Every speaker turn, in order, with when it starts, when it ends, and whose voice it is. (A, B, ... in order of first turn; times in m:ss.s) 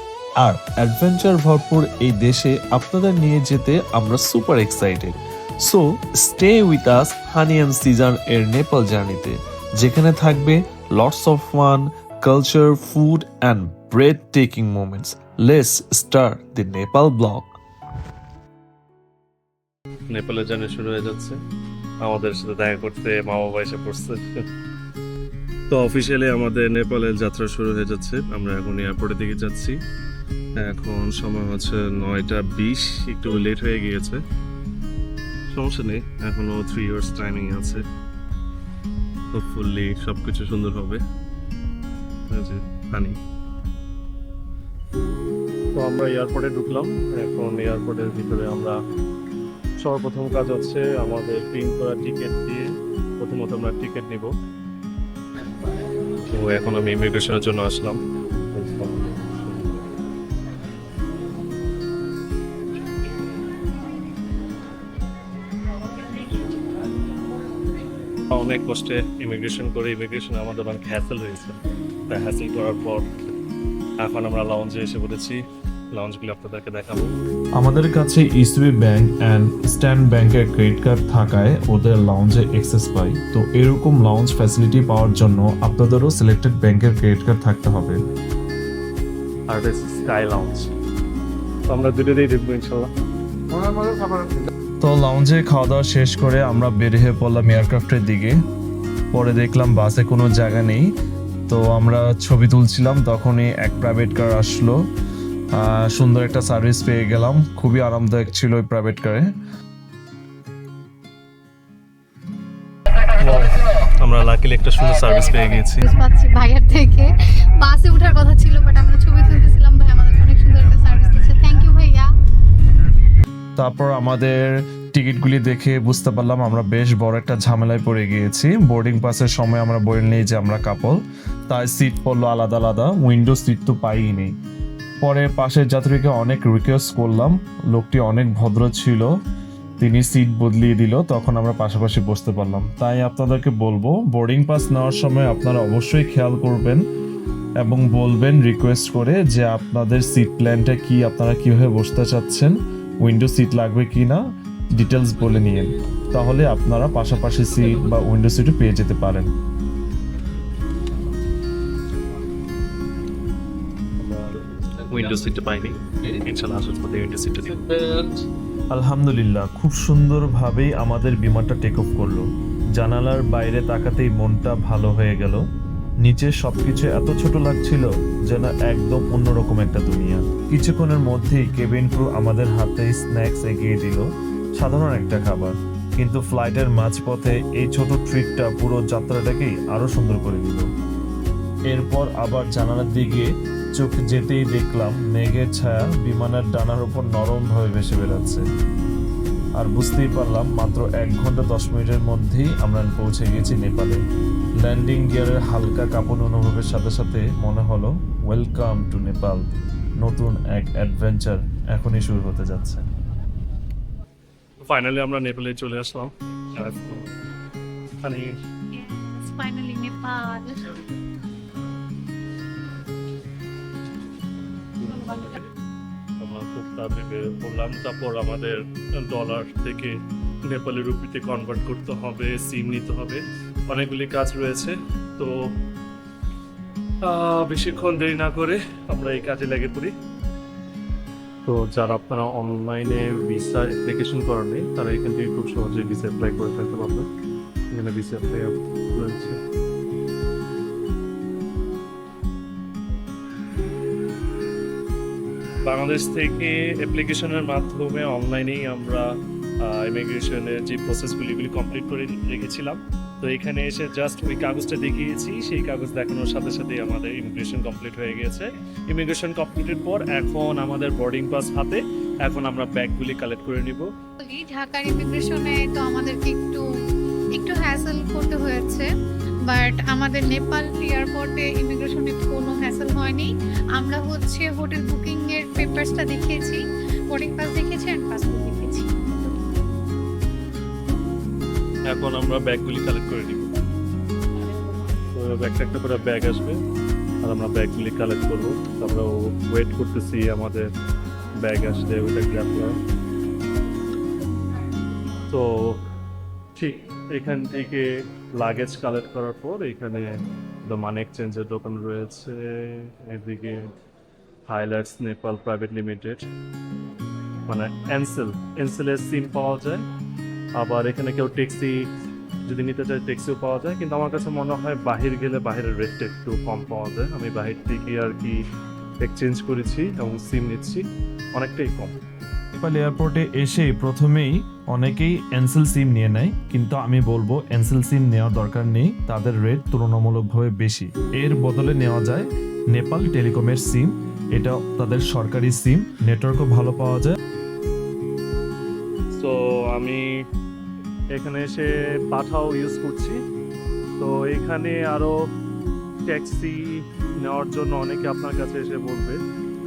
0:00.4-0:17.6 A
0:20.1-0:21.4 B
0:22.0-0:24.2 B
0:25.7-0:29.8 B
0:30.6-0:34.2 B
0:35.5-0:37.8 B
0:39.3-0:41.0 B
0:42.3-0:43.2 B
0:45.7-0:48.8 B
0:49.8-0:54.3 B
0:56.3-0:58.0 B
0:58.5-0:59.2 B
1:08.3-1:13.1 B
1:14.0-1:17.1 B
1:17.6-1:28.0 A
1:29.5-1:30.7 B
1:31.7-1:32.9 B
1:33.6-1:34.3 B
1:34.8-1:38.4 A
1:39.1-1:40.8 A
1:41.5-1:44.8 A
1:45.5-1:49.3 A
1:53.2-1:55.8 B
1:55.8-1:57.1 C
1:57.6-2:02.1 C
2:03.6-2:14.3 A
2:15.0-2:19.1 A
2:19.8-2:26.8 A
2:27.6-2:39.3 A
2:44.0-2:48.2 B
2:48.7-2:55.4 A
2:56.0-3:10.7 A
3:11.7-3:18.4 A
3:19.6-3:24.0 A
3:24.6-3:29.4 A
3:30.0-3:32.8 A
3:34.6-3:37.1 B
3:38.0-3:38.3 B
3:38.7-3:40.7 C
3:44.8-3:45.3 B
3:46.2-3:55.3 B
3:57.0-3:59.9 B
4:01.4-4:07.1 B
4:07.7-4:09.4 B
4:15.6-4:33.9 B
4:34.2-4:36.6 C
4:37.4-4:38.9 C
4:39.5-4:49.0 C
4:51.9-4:53.6 B
4:55.1-4:56.6 B
4:57.2-5:00.7 B
5:01.4-5:02.8 B
5:05.3-5:05.8 B
5:06.6-5:10.1 B
5:10.6-5:13.7 B
5:14.5-5:16.3 B
5:17.5-5:19.9 B
5:20.6-5:21.8 B
5:22.5-5:28.4 B
5:29.0-5:32.0 B
5:32.6-5:47.2 A
5:49.1-5:50.0 B
5:51.1-5:53.2 B
5:54.0-5:55.2 B
5:56.1-5:59.2 B